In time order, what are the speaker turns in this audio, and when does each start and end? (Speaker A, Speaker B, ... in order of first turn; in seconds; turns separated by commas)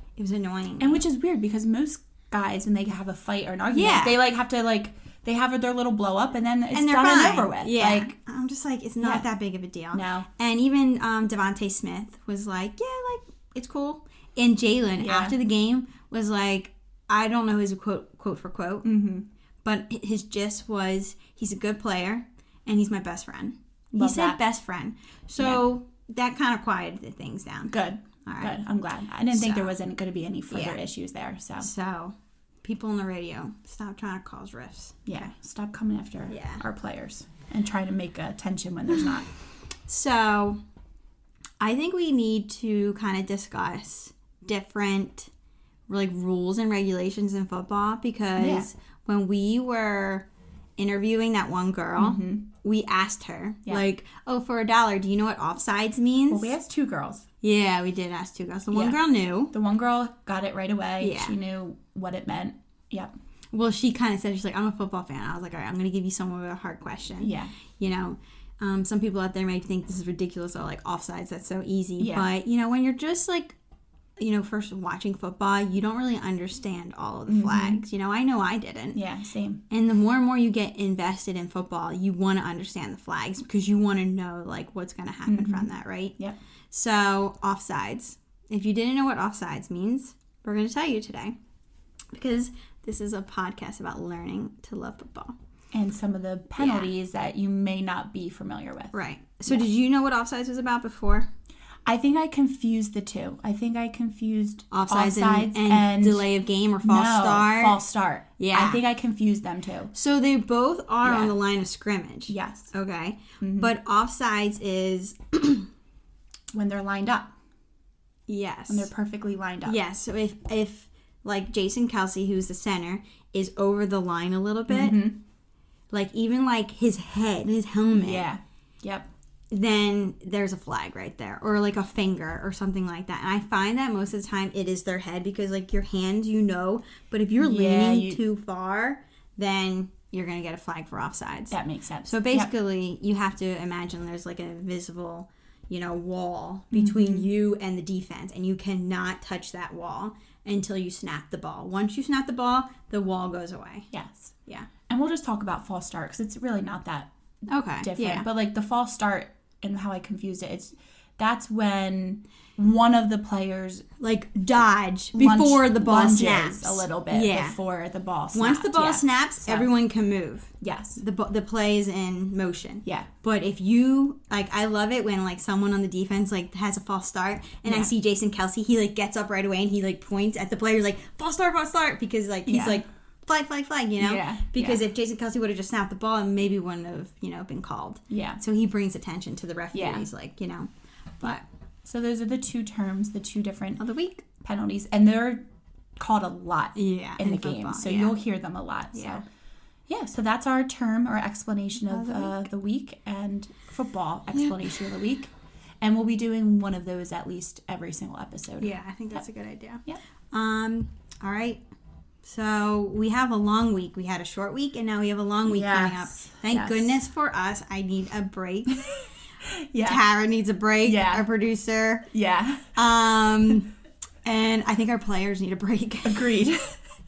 Speaker A: 0.2-1.0, Speaker B: 0.8-8.1, Speaker A: 3.7-4.2, Speaker A: 6.7-18.9, Speaker B: 9.0-9.2, Speaker B: 9.9-10.3, Speaker B: 15.0-15.3, Speaker B: 18.8-19.3, Speaker A: 19.6-28.6, Speaker B: 23.9-24.4, Speaker B: 25.4-25.6, Speaker B: 27.7-31.7, Speaker A: 29.3-29.7, Speaker A: 30.5-30.8, Speaker A: 31.6-35.3, Speaker B: 35.1-39.3, Speaker A: 36.3-36.6, Speaker A: 39.9-40.6, Speaker A: 41.6-45.3, Speaker A: 45.9-50.2, Speaker B: 48.4-48.7, Speaker A: 50.8-56.5, Speaker B: 52.0-52.5, Speaker B: 56.3-57.2, Speaker A: 57.4-59.5, Speaker B: 58.7-59.0, Speaker B: 59.5-63.1, Speaker A: 61.0-61.4, Speaker A: 63.5-73.6, Speaker B: 67.2-67.5, Speaker B: 72.0-72.3, Speaker A: 74.2-79.0, Speaker B: 77.3-77.8, Speaker B: 78.9-79.6, Speaker A: 79.7-86.2, Speaker B: 85.3-86.3, Speaker A: 86.7-91.3, Speaker A: 92.1-95.3, Speaker B: 95.7-98.9, Speaker A: 96.6-96.9, Speaker A: 98.9-101.3, Speaker B: 101.8-106.3, Speaker A: 104.7-107.8, Speaker B: 106.8-109.9, Speaker A: 108.4-108.8, Speaker A: 109.9-115.7, Speaker B: 111.0-111.4, Speaker B: 112.3-112.7, Speaker B: 113.4-113.7, Speaker B: 116.5-117.3, Speaker A: 118.3-118.9, Speaker B: 118.7-119.8, Speaker A: 119.6-125.1, Speaker B: 124.7-125.2, Speaker A: 125.9-128.2, Speaker B: 127.9-129.1, Speaker A: 129.5-153.9, Speaker B: 137.3-138.2, Speaker B: 141.5-142.5, Speaker B: 146.7-147.3, Speaker B: 153.9-154.3, Speaker B: 154.9-157.1, Speaker A: 157.5-158.2, Speaker B: 157.8-163.9, Speaker A: 164.0-167.6, Speaker B: 165.1-169.7, Speaker A: 168.3-191.4, Speaker B: 170.6-171.0, Speaker B: 177.7-177.9, Speaker B: 182.5-182.8, Speaker B: 184.0-184.8, Speaker B: 188.1-188.4, Speaker B: 189.7-190.1, Speaker B: 191.2-193.8, Speaker A: 193.8-194.2, Speaker B: 194.4-195.4, Speaker B: 196.0-199.2, Speaker A: 196.7-198.2, Speaker A: 198.9-199.2, Speaker B: 199.9-208.7, Speaker A: 201.9-202.4, Speaker A: 208.6-211.6, Speaker A: 212.2-218.8, Speaker B: 215.4-217.0, Speaker B: 219.4-220.0, Speaker A: 219.8-222.1, Speaker B: 220.8-221.3, Speaker B: 222.1-222.7, Speaker A: 222.7-223.7, Speaker A: 224.2-226.5, Speaker B: 226.0-226.7